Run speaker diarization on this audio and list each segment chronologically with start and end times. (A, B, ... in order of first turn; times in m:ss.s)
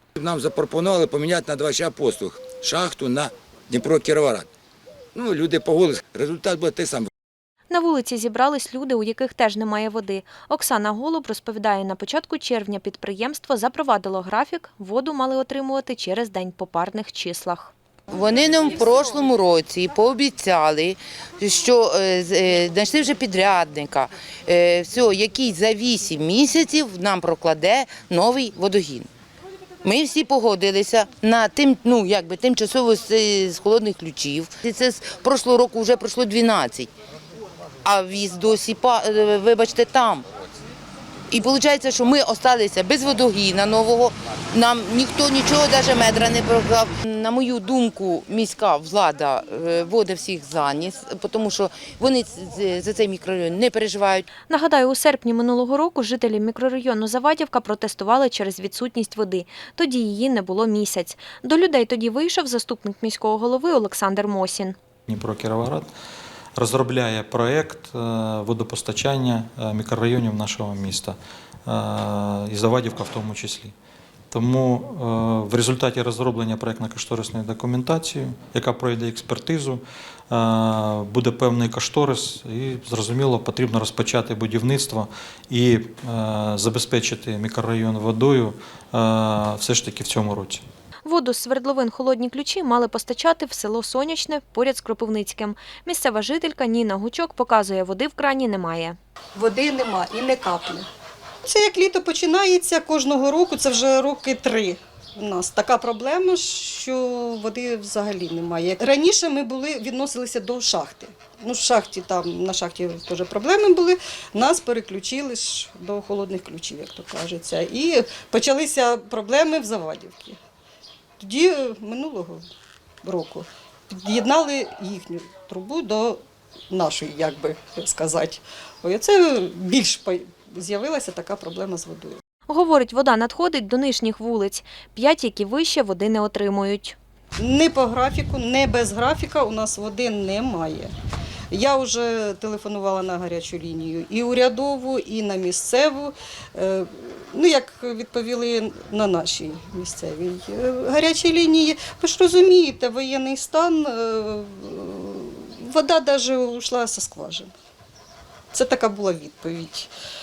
0:00.2-0:04.5 A
0:05.2-0:07.1 A
0:07.7-0:17.7 B
0:18.1-0:29.1 C
0:29.8-0:36.9 C
0:37.8-0:40.3 C
0:41.3-0:54.2 C
0:54.5-1:04.8 B
1:05.1-1:05.9 D
1:06.6-1:13.7 D
1:14.3-1:30.6 D
1:31.0-1:39.0 B
1:39.4-1:40.9 E
1:41.4-2:00.4 E
2:01.2-2:02.4 E
2:03.0-2:06.2 E
2:06.7-2:12.2 E
2:12.5-2:17.0 B
2:17.4-2:20.9 E
2:21.5-2:37.5 E
2:38.5-2:39.9 E